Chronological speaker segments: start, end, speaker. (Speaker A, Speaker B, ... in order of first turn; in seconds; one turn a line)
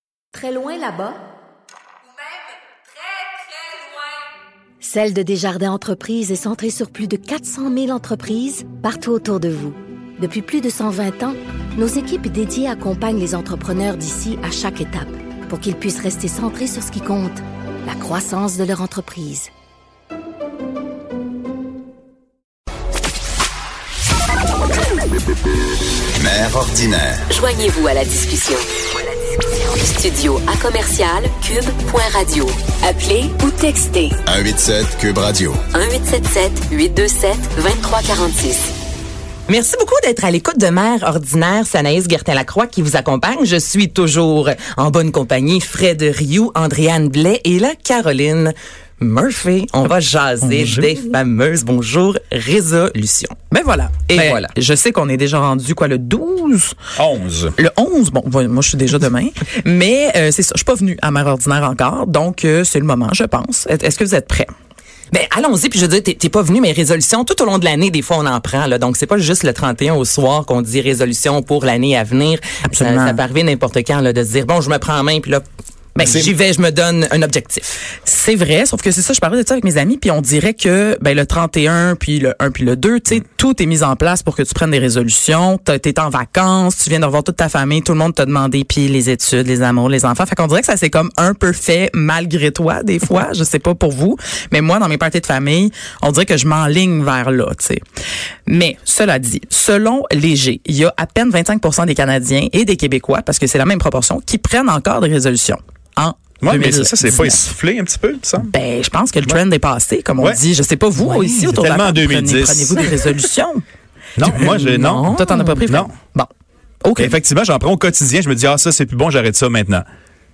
Speaker A: 0.3-1.2
Speaker A: 4.8-19.5
Speaker B: 26.2-27.2
Speaker C: 27.3-28.7
Speaker C: 29.7-34.2
Speaker B: 34.2-35.6
Speaker C: 35.7-38.7
Speaker D: 39.5-53.3
Speaker E: 50.4-50.9
Speaker F: 53.5-56.8
Speaker D: 54.1-54.5
Speaker E: 57.0-57.5
Speaker F: 57.5-64.5
Speaker D: 65.1-75.4
Speaker F: 72.7-73.2
Speaker F: 76.0-76.3
Speaker D: 76.0-77.8
Speaker F: 78.0-97.8
Speaker F: 98.5-107.5
Speaker E: 106.4-108.5
Speaker F: 108.4-113.6
Speaker D: 111.0-111.4
Speaker E: 111.3-113.1
Speaker E: 114.2-115.9
Speaker D: 114.2-115.3
Speaker F: 115.1-116.3
Speaker F: 116.8-117.2
Speaker E: 117.0-119.8